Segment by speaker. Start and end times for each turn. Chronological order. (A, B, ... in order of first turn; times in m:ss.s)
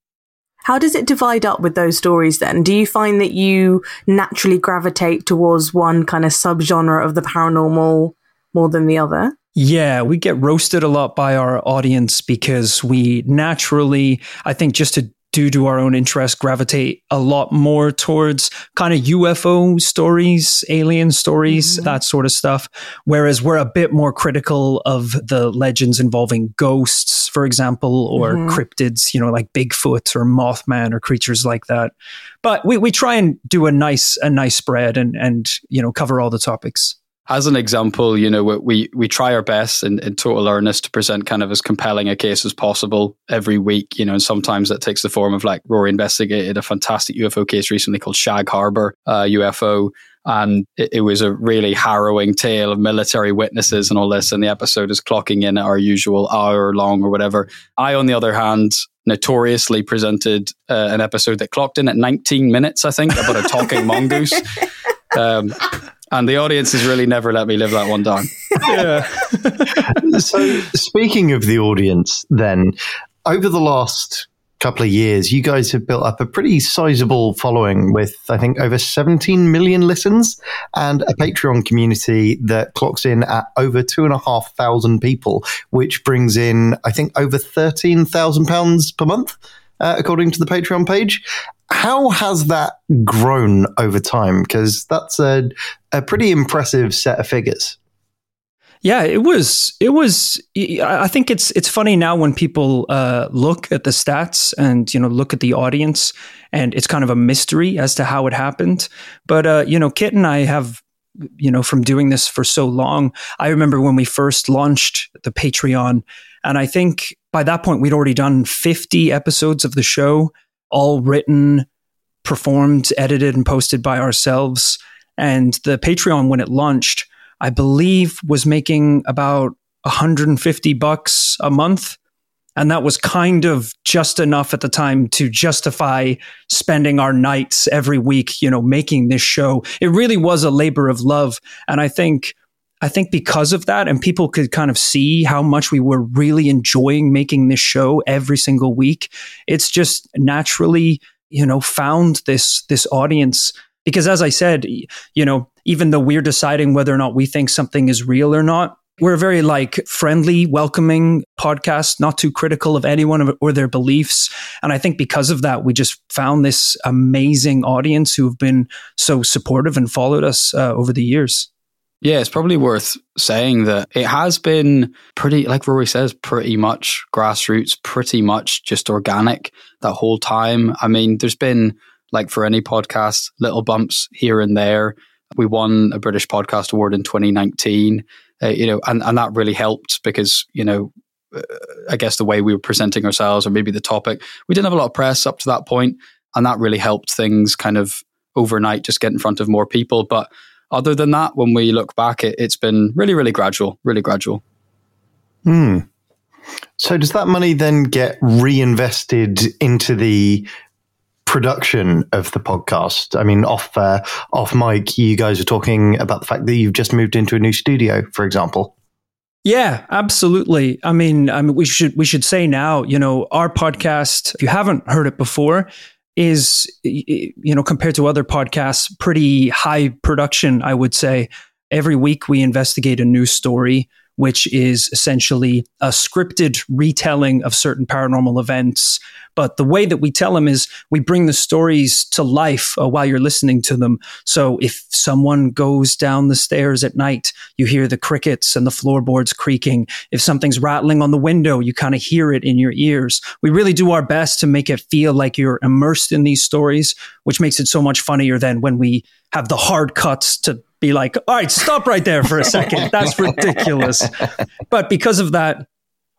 0:00.6-0:09.3 A
0:09.6-0:37.0 B
0:21.5-0:21.8 A
0:28.2-0:28.6 A
0:37.3-1:04.6 C
1:05.1-1:08.6 C
1:08.6-1:10.0 B
1:09.9-1:37.8 D
1:38.8-2:01.6 B
2:02.2-2:12.0 B
2:12.6-2:51.5 B
2:52.0-3:24.4 C
3:25.4-3:25.8 D
3:26.8-3:30.5 D
3:31.2-3:38.7 D
3:39.4-4:24.2 B
4:24.7-4:25.6 B